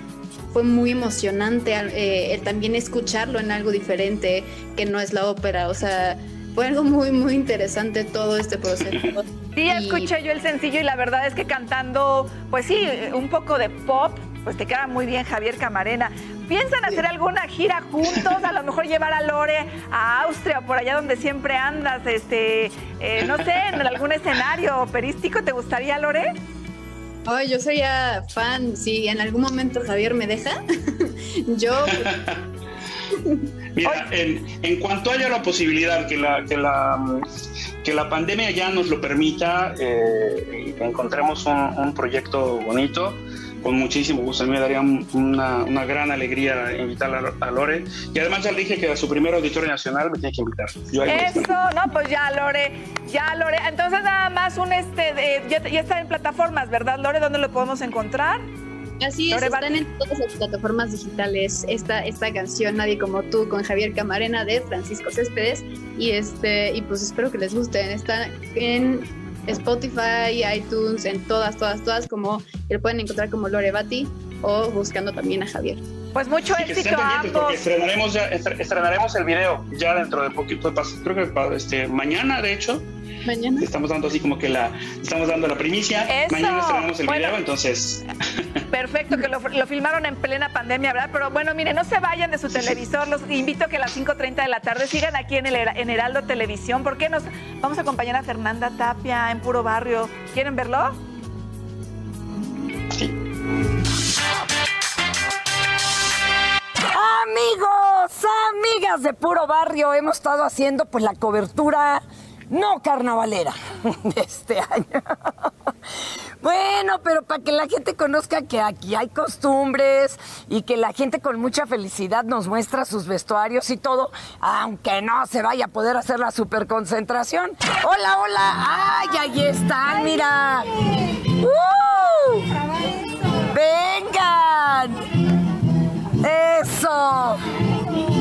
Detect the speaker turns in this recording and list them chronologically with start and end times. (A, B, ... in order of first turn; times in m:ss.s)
0:00.5-0:10.1 A
0:09.6-0:26.3 B
0:23.3-0:23.8 C
0:27.3-0:32.1 A
0:31.9-0:32.3 C
0:33.8-0:37.2 C
0:33.8-0:34.1 B
0:37.8-0:51.5 C
0:51.1-0:58.5 B
0:59.0-1:15.8 A
0:59.3-0:59.8 B
1:16.1-1:17.6 B
1:16.4-1:22.8 C
1:23.3-1:23.6 A
1:23.6-1:28.0 C
1:26.1-1:27.4 B
1:28.7-1:41.0 B
1:46.9-1:55.5 D
1:56.4-2:12.5 D
2:13.4-2:15.0 D
2:16.2-2:17.4 D